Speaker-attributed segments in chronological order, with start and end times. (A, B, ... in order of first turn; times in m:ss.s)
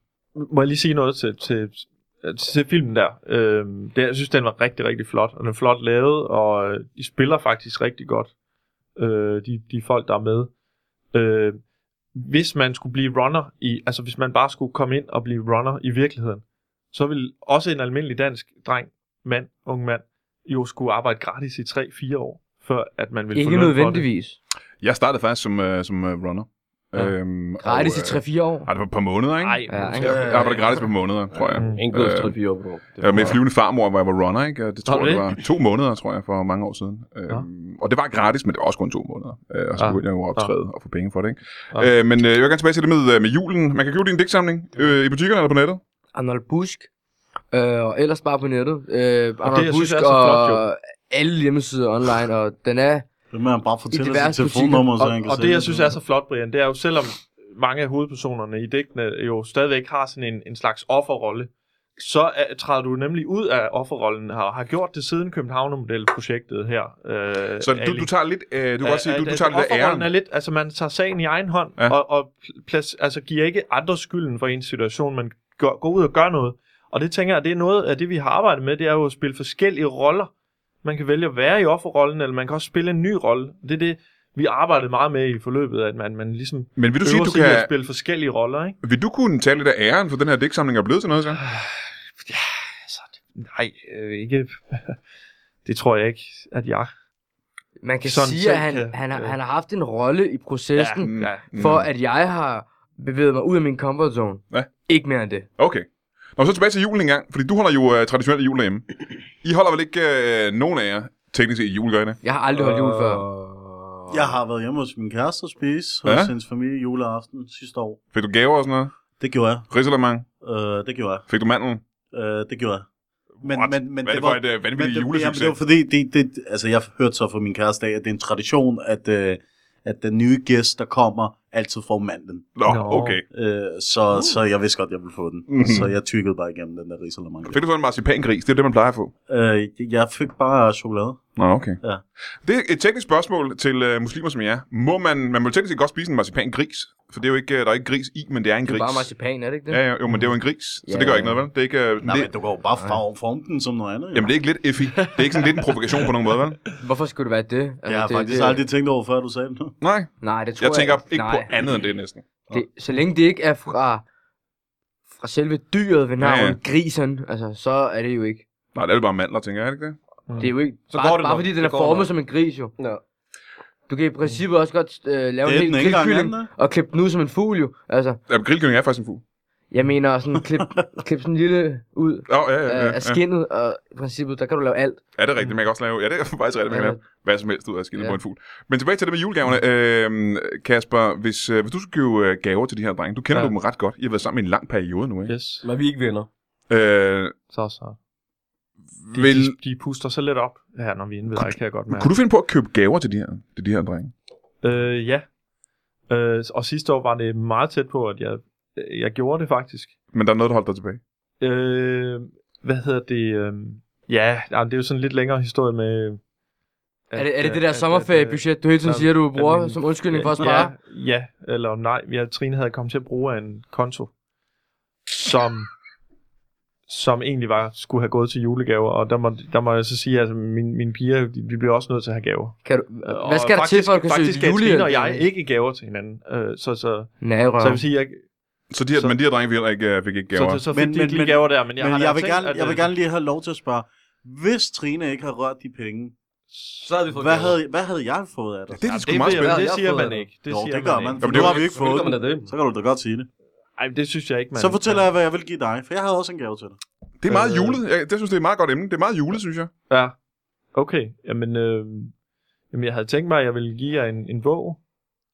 0:00.4-0:08.3 A
0:09.0-0:10.5 A
0:11.1-0:11.6 A
0:12.2-0:24.1 A
0:23.3-0:24.4 B
0:24.8-0:32.4 C
0:27.6-0:28.7 B
0:29.4-0:30.8 A
0:29.7-0:30.6 B
0:30.0-0:30.6 D
0:31.6-0:33.4 E
0:31.6-0:31.8 A
0:33.0-0:45.8 C
0:34.9-0:35.4 A
0:39.8-0:40.5 A
0:46.1-0:46.9 B
0:47.5-0:53.1 B
0:49.4-0:50.6 A
0:53.3-0:56.0 D
0:53.9-0:55.2 B
0:55.2-1:08.1 A
1:07.6-1:10.1 C
1:08.8-1:20.3 A
1:20.8-1:28.8 A
1:26.8-1:27.7 C
1:28.8-1:31.4 C
1:31.4-1:35.0 A
1:35.6-1:36.9 A
1:37.8-1:45.5 B
1:38.0-1:39.4 A
1:40.8-1:41.5 A
1:41.0-1:41.9 C
1:45.6-1:48.9 C
1:49.4-1:52.2 C
1:52.2-1:53.3 B
1:52.5-1:54.2 E
1:54.1-1:58.0 D
1:56.0-1:56.3 C
1:58.1-1:58.9 C
1:59.2-1:59.7 D
1:59.7-2:00.3 C
2:00.4-2:01.3 D
2:01.3-2:01.8 C
2:02.1-2:02.9 D
2:03.4-2:05.6 C
2:03.4-2:12.6 D
2:12.6-2:13.2 C
2:12.7-2:13.2 A
2:13.3-2:17.6 D
2:15.5-2:15.9 C
2:17.4-2:19.1 C
2:19.3-2:21.2 D
2:21.4-2:21.8 C
2:22.4-2:29.1 C
2:28.6-2:29.8 B
2:29.7-2:32.3 C
2:30.8-2:31.4 B
2:32.0-2:34.3 D
2:34.1-2:36.6 C
2:36.8-2:38.6 B
2:37.9-2:39.8 D
2:39.8-2:42.6 C
2:40.2-2:41.5 B
2:42.5-2:44.0 B
2:45.2-2:48.4 B
2:46.2-2:46.6 C
2:48.8-2:50.0 C
2:50.3-2:50.5 A
2:50.4-2:52.7 B
2:50.9-2:52.1 E
2:53.9-2:58.2 B
2:55.4-2:56.5 D
2:58.3-2:59.2 C
2:59.7-3:05.0 B
3:02.3-3:03.2 C
3:05.2-3:15.4 C
3:06.7-3:07.0 B
3:15.3-3:15.6 A
3:15.6-3:16.3 E
3:16.7-3:17.4 C
3:17.5-3:18.0 A
3:19.0-3:19.6 C
3:19.1-3:22.1 A
3:21.3-3:24.1 C
3:24.6-3:25.2 A
3:26.1-3:29.9 A
3:30.1-3:31.0 C
3:31.4-3:36.2 A
3:37.1-3:44.1 A
3:37.2-3:40.7 B
3:45.1-3:45.7 A
3:46.9-3:58.2 A
3:52.6-3:55.3 B
3:57.2-3:57.8 B
3:58.7-4:00.6 C
4:00.3-4:02.9 A
4:00.7-4:06.1 D
4:06.5-4:06.8 A
4:06.8-4:07.6 E
4:07.1-4:08.9 D
4:08.7-4:09.7 C
4:08.8-4:11.5 A
4:09.3-4:10.3 E
4:10.5-4:13.3 D
4:11.2-4:11.8 C
4:11.2-4:12.5 E
4:13.8-4:15.1 A
4:14.6-4:16.8 D
4:17.2-4:19.7 C
4:17.3-4:17.8 A
4:19.9-4:20.2 A
4:20.7-4:22.1 A
4:22.7-4:24.8 A